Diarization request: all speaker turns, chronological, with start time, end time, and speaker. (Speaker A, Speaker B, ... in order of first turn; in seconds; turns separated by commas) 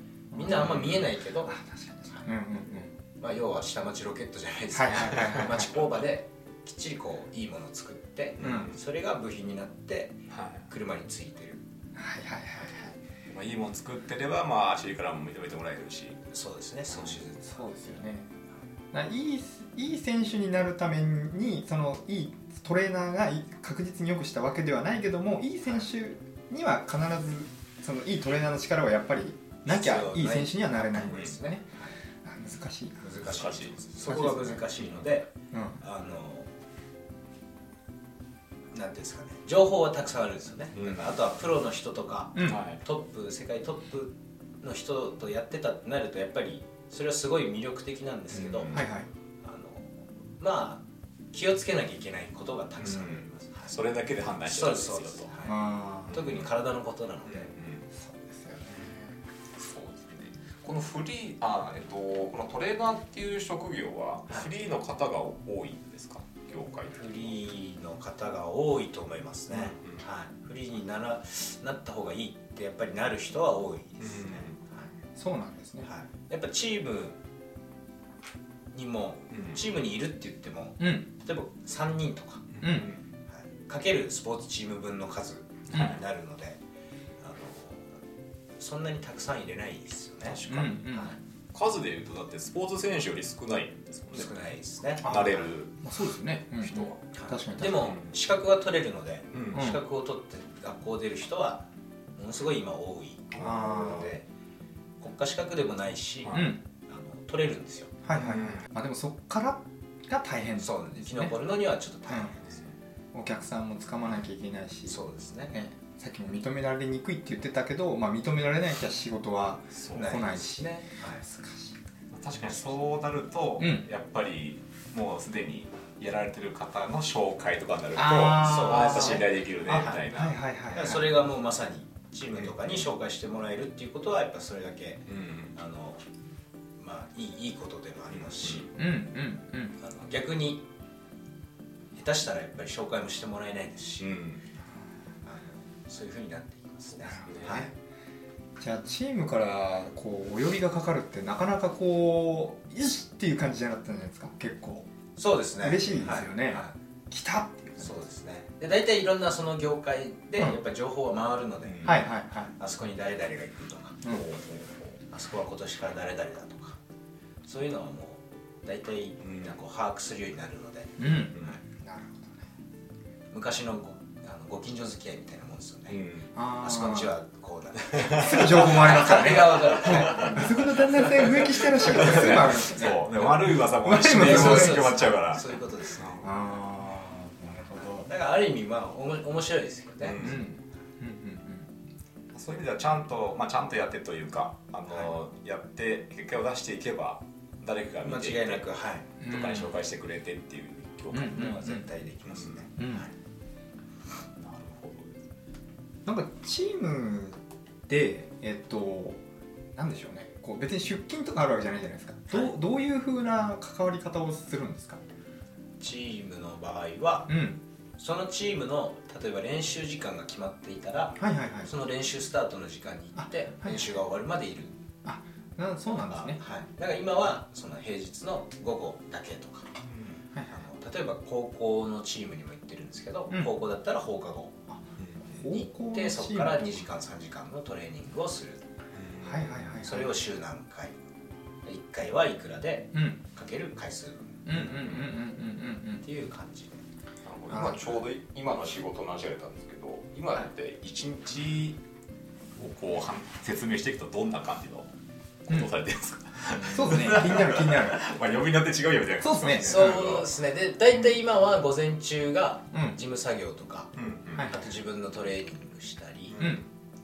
Speaker A: 0.3-0.8, Speaker B: 0.3-1.5, Speaker C: 0.5-1.0, Speaker A: 1.4-2.9, Speaker B: 3.2-11.6, Speaker A: 4.7-5.7, Speaker C: 8.4-8.7, Speaker A: 8.4-8.7, Speaker C: 10.3-10.7, Speaker A: 11.9-13.0, Speaker C: 13.3-16.2, Speaker B: 16.3-17.7, Speaker C: 16.9-17.2, Speaker A: 17.5-18.3, Speaker A: 18.9-31.6, Speaker B: 29.6-31.9, Speaker A: 32.2-33.1, Speaker B: 33.0-36.5, Speaker C: 33.2-33.9, Speaker A: 34.0-34.6, Speaker A: 35.5-35.8, Speaker B: 38.7-48.8, Speaker C: 40.7-41.1, Speaker A: 42.3-42.6, Speaker C: 42.4-42.8, Speaker C: 48.3-48.9, Speaker A: 48.7-49.1, Speaker B: 49.4-53.8, Speaker C: 52.8-55.3, Speaker B: 54.5-57.5, Speaker A: 55.4-56.2, Speaker C: 56.1-56.5, Speaker C: 57.2-57.9, Speaker A: 57.9-59.2, Speaker C: 59.5-67.3, Speaker B: 66.9-74.9, Speaker C: 69.5-70.0, Speaker C: 74.0-74.6, Speaker A: 75.1-75.9, Speaker B: 75.8-77.2, Speaker B: 78.7-82.5, Speaker C: 79.3-79.6, Speaker A: 80.8-81.0, Speaker C: 82.5-83.0, Speaker A: 82.6-82.9, Speaker B: 83.3-86.6, Speaker C: 85.7-86.0, Speaker B: 87.2-87.9, Speaker B: 88.6-91.2, Speaker C: 90.2-90.9, Speaker A: 90.4-91.1, Speaker C: 91.5-94.3, Speaker B: 94.1-95.5, Speaker C: 95.0-95.8, Speaker A: 95.0-97.9, Speaker C: 96.6-97.0, Speaker B: 97.1-101.6, Speaker C: 97.7-98.1, Speaker C: 99.3-99.7, Speaker A: 99.5-99.8, Speaker B: 102.2-104.2, Speaker C: 103.3-104.1, Speaker A: 103.4-104.1, Speaker B: 105.0-107.9, Speaker A: 106.3-106.6, Speaker A: 108.0-111.3, Speaker C: 108.1-108.6, Speaker B: 110.6-112.6, Speaker A: 112.1-112.3, Speaker A: 113.1-115.0, Speaker B: 114.9-115.5, Speaker A: 115.5-121.8, Speaker C: 119.7-120.2, Speaker B: 119.9-121.2, Speaker C: 122.1-130.4, Speaker A: 123.6-123.8, Speaker A: 128.0-131.0, Speaker B: 128.3-130.0, Speaker B: 130.7-136.0, Speaker C: 132.3-132.8, Speaker C: 135.1-135.5, Speaker B: 136.8-138.7, Speaker C: 138.1-138.7, Speaker A: 138.7-139.8, Speaker B: 139.8-140.6, Speaker B: 141.9-144.2, Speaker C: 144.0-144.4, Speaker B: 145.2-147.7, Speaker C: 146.9-147.7, Speaker A: 147.4-147.7, Speaker A: 148.6-154.9, Speaker B: 155.2-156.7, Speaker A: 155.6-157.9, Speaker B: 157.8-162.0, Speaker C: 161.6-162.0, Speaker A: 161.8-162.5, Speaker B: 162.6-164.1, Speaker C: 164.1-165.0, Speaker B: 165.1-166.8, Speaker B: 167.4-171.6, Speaker C: 169.2-169.6, Speaker A: 171.0-172.4, Speaker B: 173.3-176.0, Speaker C: 175.9-176.3, Speaker A: 176.3-177.1, Speaker B: 176.6-181.1, Speaker C: 177.9-180.5, Speaker A: 178.1-184.9, Speaker C: 181.1-186.3, Speaker B: 184.1-186.5, Speaker A: 186.2-188.1, Speaker B: 188.0-190.4, Speaker C: 190.0-190.5, Speaker A: 190.2-191.7, Speaker C: 192.3-201.5, Speaker B: 198.0-199.1, Speaker A: 199.2-199.7, Speaker A: 201.1-201.8, Speaker B: 201.2-203.1, Speaker C: 202.2-202.6, Speaker A: 202.8-203.1, Speaker C: 204.3-205.2, Speaker A: 206.1-209.2, Speaker A: 209.7-215.0, Speaker B: 215.8-217.3, Speaker A: 217.3-217.6, Speaker B: 218.0-224.7, Speaker A: 221.2-221.7, Speaker A: 223.2-223.9, Speaker A: 225.0-226.4, Speaker B: 225.9-229.7, Speaker C: 229.8-230.2, Speaker A: 230.3-230.6, Speaker B: 230.5-234.5, Speaker A: 234.7-236.8, Speaker C: 235.0-235.2, Speaker B: 235.4-238.6, Speaker C: 238.9-239.9, Speaker A: 239.2-240.1, Speaker B: 239.8-240.9, Speaker B: 241.6-244.5, Speaker A: 242.9-243.2, Speaker A: 244.4-246.0, Speaker C: 244.5-245.1, Speaker B: 246.0-246.8, Speaker C: 247.2-251.8, Speaker A: 247.5-248.0, Speaker C: 252.6-254.9, Speaker C: 255.5-260.3, Speaker A: 256.6-258.0, Speaker A: 259.2-260.2, Speaker B: 259.6-266.4, Speaker C: 263.9-264.5, Speaker A: 264.3-264.7, Speaker C: 266.3-266.6, Speaker A: 266.4-266.6